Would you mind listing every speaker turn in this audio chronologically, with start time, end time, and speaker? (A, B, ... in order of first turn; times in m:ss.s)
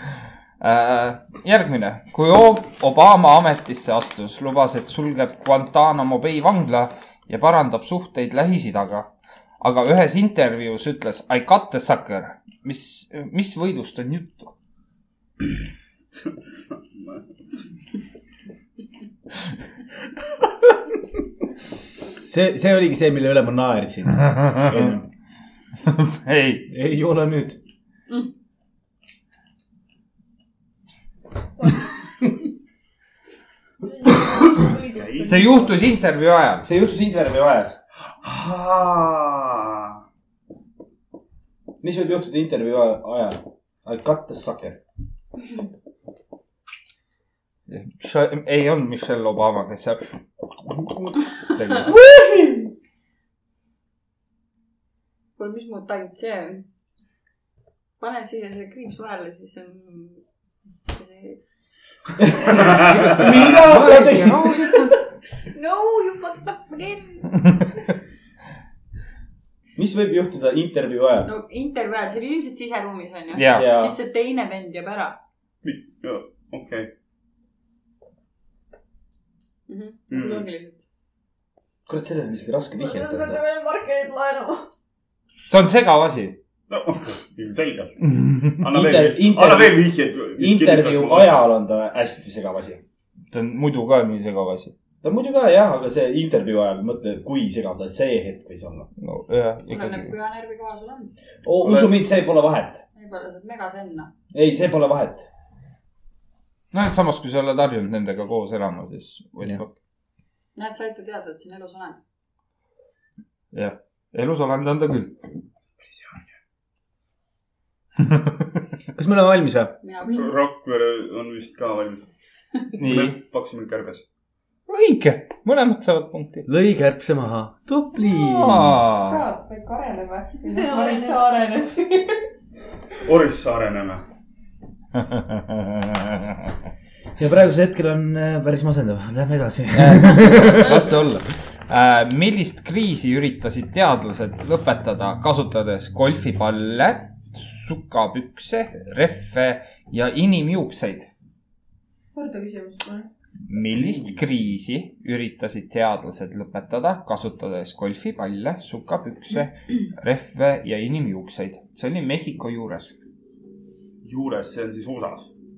0:00.6-0:09.1 A
0:09.6-0:14.5 A
0:16.7-0:17.2 B
0:22.3-0:25.1 C
0:24.3-0:25.0 A
0:25.9-0:26.7 A
0:26.7-0:27.6 C
0:33.8-0:35.8 D
0:34.9-0:35.5 B
0:35.3-0:36.7 A
0:36.6-0:37.8 C
0:38.2-0:40.0 B
0:41.8-0:44.8 C
0:47.7-0:51.9 A
0:51.9-0:52.7 C
0:55.4-0:56.7 E
0:58.0-1:00.2 E
1:00.9-1:01.4 E
1:02.2-1:04.6 C
1:03.2-1:05.0 A
1:05.5-1:07.2 D
1:09.8-1:11.3 C
1:11.2-1:15.2 E
1:13.3-1:13.7 A
1:13.5-1:14.0 C
1:15.6-1:16.9 B
1:19.7-1:20.8 E
1:20.1-1:20.5 B
1:21.9-1:23.4 C
1:22.7-1:24.7 D
1:25.5-1:26.4 A
1:26.7-1:31.5 B
1:28.6-1:32.8 C
1:33.3-1:34.7 A
1:35.0-1:38.9 C
1:39.0-1:40.1 A
1:39.7-1:41.1 E
1:41.4-1:42.8 C
1:41.6-1:41.9 B
1:43.0-1:44.1 E
1:44.3-1:45.3 C
1:46.7-1:49.7 A
1:50.6-1:52.0 E
1:53.5-1:55.2 A
1:59.0-1:59.8 C
1:59.8-2:00.3 E
2:00.1-2:02.1 B
2:02.8-2:03.2 A
2:02.8-2:04.0 B
2:04.7-2:06.5 A
2:06.5-2:08.8 C
2:08.1-2:09.2 A
2:09.0-2:12.1 F
2:10.5-2:11.7 D
2:13.0-2:14.0 B
2:15.0-2:16.4 A
2:17.2-2:20.9 C
2:19.7-2:31.1 A
2:32.2-2:32.8 F
2:32.2-2:33.1 D
2:33.5-2:43.0 A
2:33.8-2:34.2 B
2:44.0-2:45.3 B